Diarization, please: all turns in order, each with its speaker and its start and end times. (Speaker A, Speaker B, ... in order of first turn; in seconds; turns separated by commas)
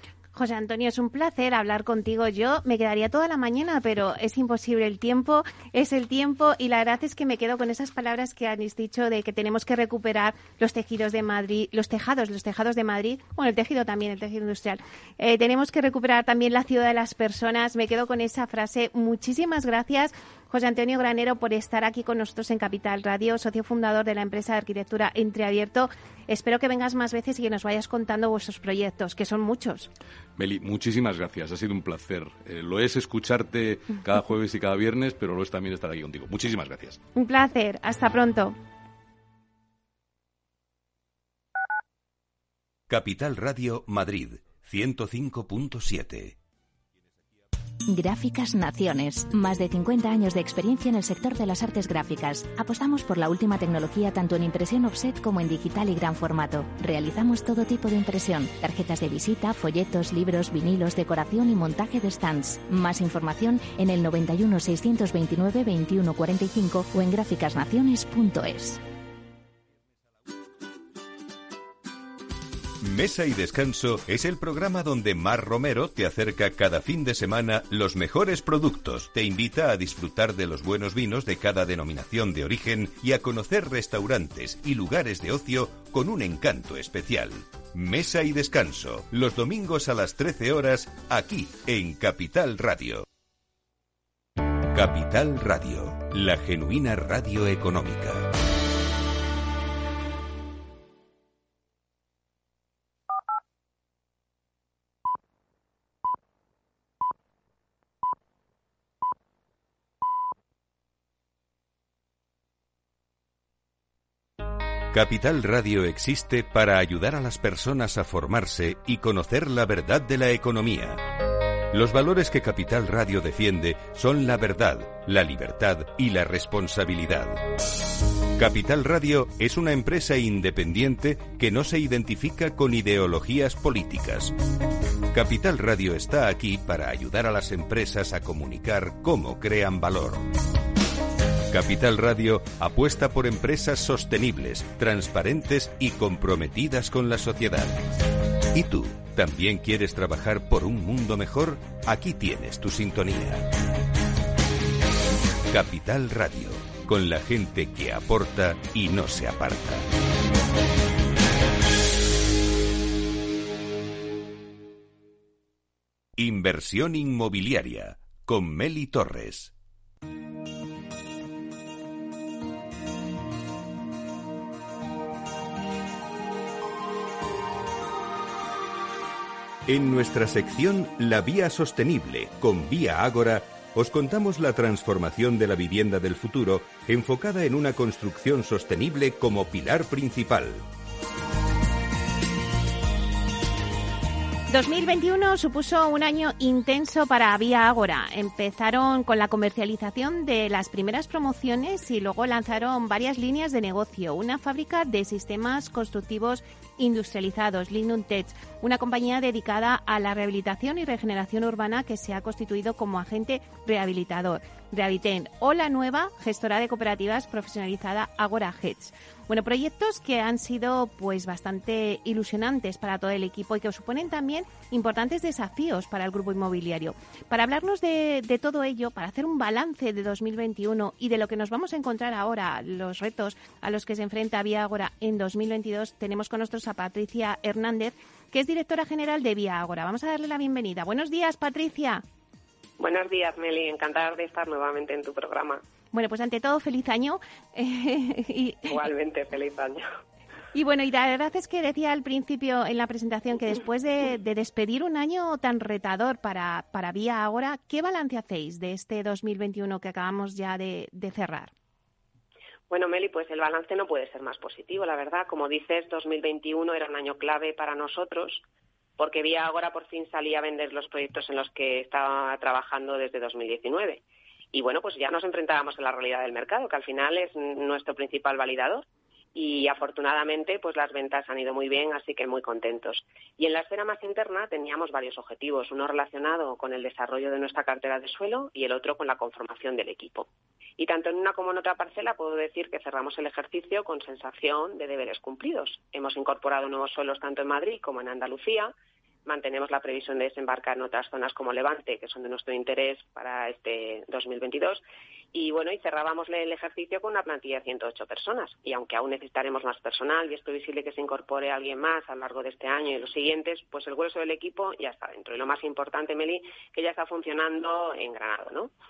Speaker A: 0.3-29.9, Speaker B: 30.4-37.0, Speaker A: 37.1-38.5, Speaker C: 42.9-46.4, Speaker D: 47.9-68.8, Speaker C: 72.8-93.0, Speaker C: 94.7-98.3, Speaker C: 114.9-121.0, Speaker C: 121.7-127.4, Speaker C: 128.3-134.3, Speaker C: 135.1-140.3, Speaker C: 141.5-147.8, Speaker C: 148.5-153.5, Speaker C: 155.5-159.8, Speaker C: 166.2-169.5, Speaker C: 179.7-190.6, Speaker A: 194.5-242.0, Speaker E: 242.8-245.6, Speaker A: 245.9-248.8, Speaker E: 248.7-249.9, Speaker A: 250.5-261.5, Speaker E: 262.7-268.4, Speaker E: 269.0-298.7, Speaker E: 299.2-304.8, Speaker E: 305.3-318.7